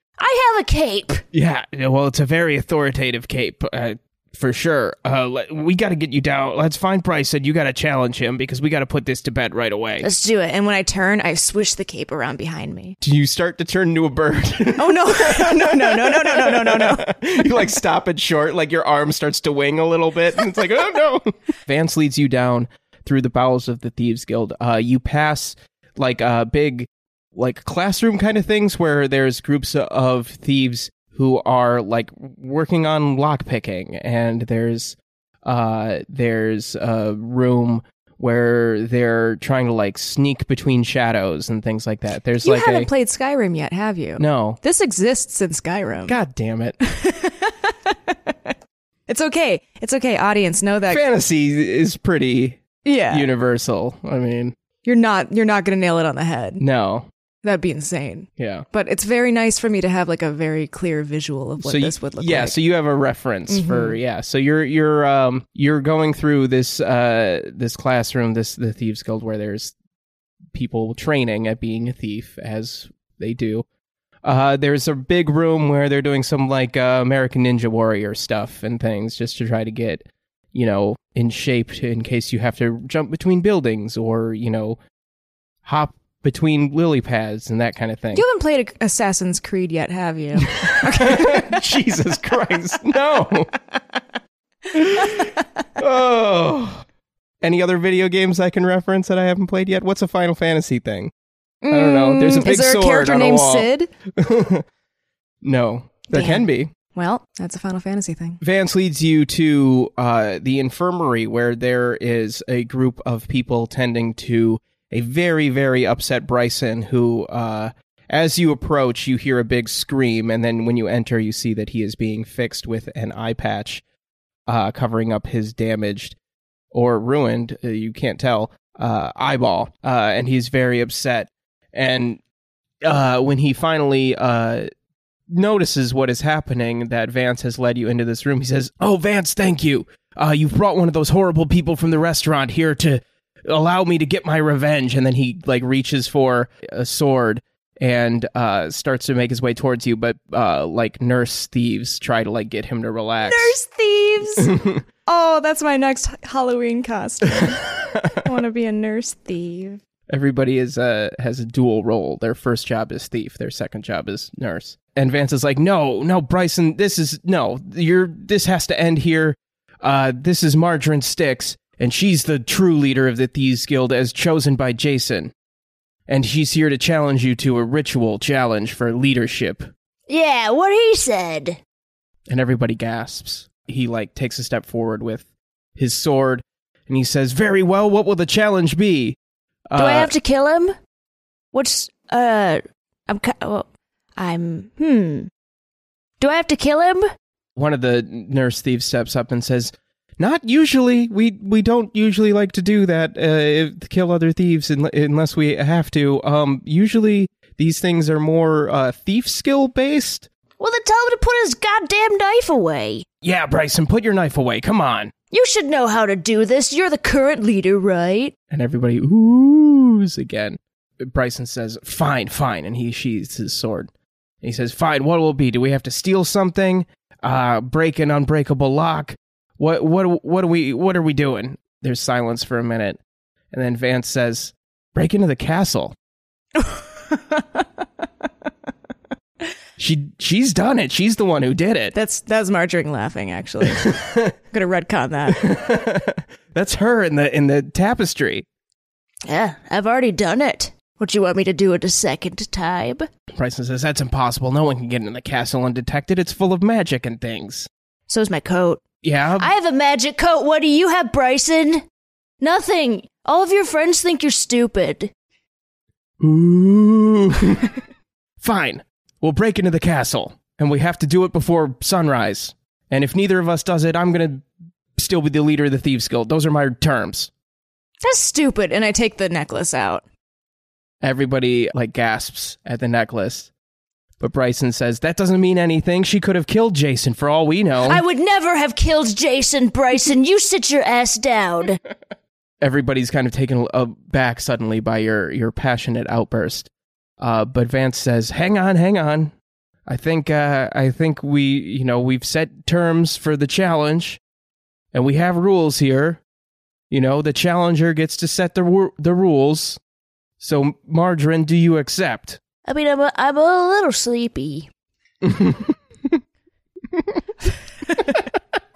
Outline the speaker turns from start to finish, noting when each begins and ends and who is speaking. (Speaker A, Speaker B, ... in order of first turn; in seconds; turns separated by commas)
Speaker A: 0.2-1.2, Speaker B: 1.3-10.1, Speaker A: 10.0-10.5, Speaker C: 10.3-12.9, Speaker B: 13.0-42.9, Speaker C: 14.8-17.1, Speaker C: 42.4-46.2, Speaker B: 44.2-44.6, Speaker B: 46.0-46.8, Speaker C: 46.8-48.5, Speaker C: 49.1-51.0, Speaker B: 50.9-54.5, Speaker C: 52.8-53.3, Speaker C: 54.8-56.6, Speaker B: 56.6-57.1, Speaker C: 57.4-62.5, Speaker B: 58.4-58.6, Speaker B: 61.6-69.7, Speaker C: 63.5-64.0, Speaker B: 70.5-73.6, Speaker B: 74.2-84.8, Speaker B: 85.6-88.2, Speaker C: 88.1-91.6, Speaker B: 90.5-93.5, Speaker B: 94.7-96.8, Speaker C: 94.9-95.3, Speaker B: 97.4-101.1, Speaker C: 101.6-103.9, Speaker B: 101.7-104.6, Speaker B: 105.4-106.7, Speaker C: 106.1-108.4, Speaker B: 108.4-123.8, Speaker B: 124.5-126.2, Speaker B: 126.7-132.2, Speaker B: 132.8-134.7, Speaker B: 135.3-153.6, Speaker C: 153.2-154.5, Speaker B: 154.4-154.8, Speaker C: 155.1-159.8, Speaker B: 157.3-158.2, Speaker B: 160.1-175.3, Speaker B: 176.1-179.7, Speaker A: 180.1-181.6, Speaker B: 182.3-185.2, Speaker B: 185.8-189.2, Speaker B: 189.7-190.1, Speaker A: 189.8-190.7, Speaker A: 191.5-195.3, Speaker A: 196.2-197.0, Speaker B: 197.6-210.3, Speaker A: 210.6-213.1, Speaker B: 213.2-215.1, Speaker A: 215.3-218.3, Speaker B: 218.5-223.9, Speaker B: 224.4-233.0, Speaker B: 233.5-235.9, Speaker C: 236.6-237.7, Speaker B: 239.8-241.9, Speaker C: 241.9-244.0, Speaker B: 243.6-244.3, Speaker C: 244.5-245.4, Speaker B: 245.3-248.4, Speaker A: 249.3-253.1, Speaker B: 253.4-257.7, Speaker A: 258.1-258.8, Speaker B: 259.0-259.5, Speaker A: 259.4-261.8, Speaker A: 262.4-265.1, Speaker B: 266.2-267.7, Speaker B: 268.4-277.3, Speaker C: 278.0-280.0, Speaker B: 281.0-283.5, Speaker B: 284.2-288.0, Speaker A: 287.8-291.8, Speaker B: 292.6-296.7, Speaker B: 297.2-299.3, Speaker B: 299.9-304.2, Speaker B: 304.9-306.2, Speaker B: 306.9-309.8, Speaker B: 310.4-312.4, Speaker A: 312.6-314.7, Speaker B: 315.2-315.6